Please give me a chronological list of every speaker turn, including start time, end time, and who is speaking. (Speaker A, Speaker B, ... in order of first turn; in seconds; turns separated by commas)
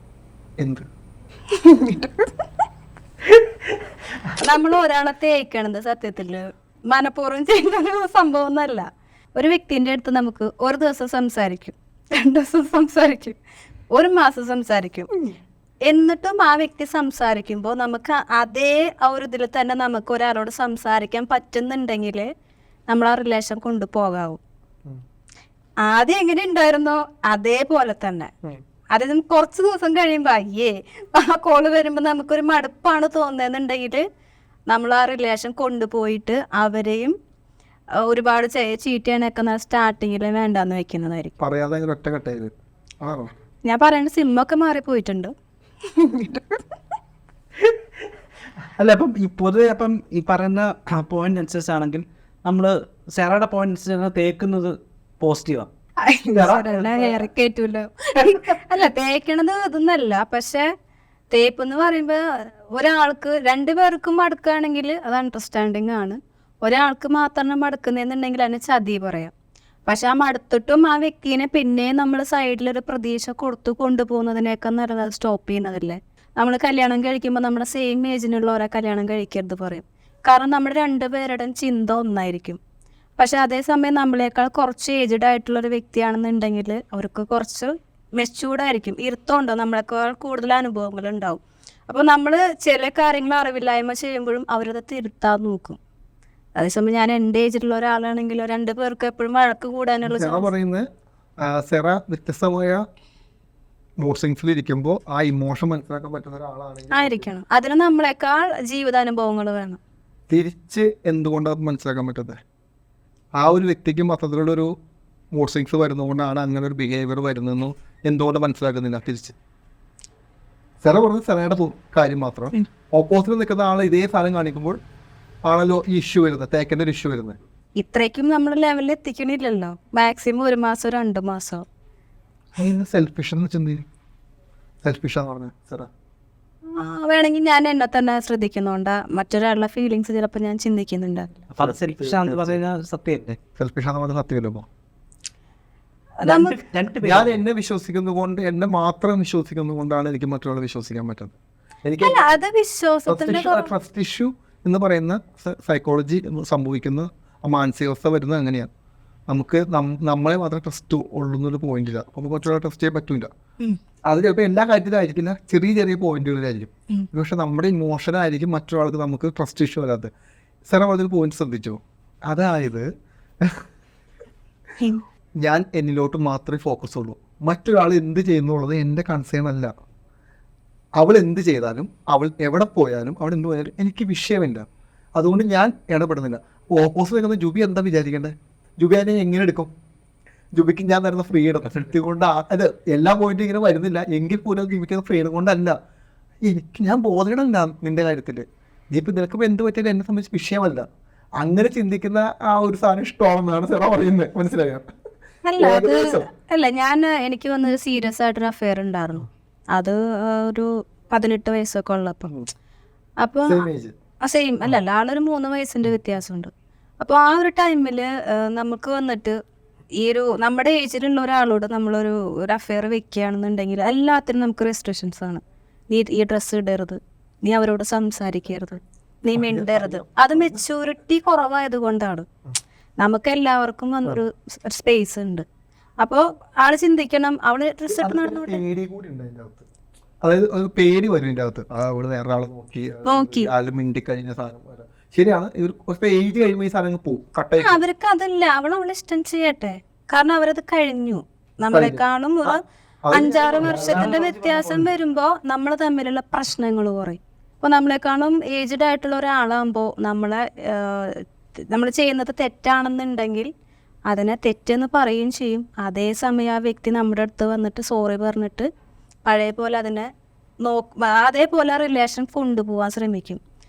Speaker A: 0.6-0.8, Speaker B: 1.6-2.3, Speaker B: 4.4-13.4, Speaker B: 13.9-15.1, Speaker B: 15.9-22.3, Speaker B: 22.9-24.4, Speaker B: 25.9-28.3, Speaker B: 28.9-34.0, Speaker B: 34.7-37.1, Speaker B: 38.0-41.4, Speaker A: 41.4-43.3, Speaker B: 43.7-45.3, Speaker B: 46.0-46.6, Speaker C: 48.8-55.7, Speaker B: 56.0-60.7, Speaker A: 56.3-57.2, Speaker B: 61.3-62.2, Speaker B: 62.7-69.3, Speaker B: 69.9-82.6, Speaker B: 83.2-95.8, Speaker B: 96.6-100.5, Speaker A: 100.0-100.8, Speaker A: 101.4-102.8, Speaker A: 104.0-107.3, Speaker B: 106.9-109.8, Speaker A: 110.3-112.4, Speaker A: 113.4-114.7, Speaker A: 115.3-119.3, Speaker A: 120.8-124.8, Speaker A: 125.5-127.4, Speaker B: 127.8-131.6, Speaker A: 132.6-133.9, Speaker A: 134.8-135.9, Speaker B: 136.8-141.5, Speaker C: 141.5-143.4, Speaker A: 141.6-142.6, Speaker A: 143.6-144.7, Speaker B: 146.2-146.5, Speaker C: 146.2-147.4, Speaker A: 147.0-152.3, Speaker B: 152.0-153.7, Speaker A: 153.1-158.7, Speaker A: 159.3-163.3, Speaker A: 164.1-170.1, Speaker A: 170.7-172.9, Speaker A: 175.4-179.7, Speaker A: 181.0-184.6, Speaker A: 185.2-189.7, Speaker A: 190.5-195.8, Speaker A: 196.4-200.8, Speaker A: 201.4-204.8, Speaker B: 205.5-212.3, Speaker A: 205.6-206.2, Speaker B: 213.2-213.6, Speaker A: 213.4-213.9, Speaker B: 214.2-216.5, Speaker B: 217.0-219.4, Speaker B: 220.0-232.3, Speaker A: 229.3-230.6, Speaker B: 233.0-235.4, Speaker B: 236.0-238.6, Speaker A: 237.9-239.7, Speaker A: 240.2-247.8, Speaker B: 243.0-243.5, Speaker B: 247.6-263.5, Speaker A: 251.7-254.9, Speaker C: 253.7-254.1, Speaker B: 264.1-268.7, Speaker B: 269.2-270.1, Speaker B: 270.6-273.4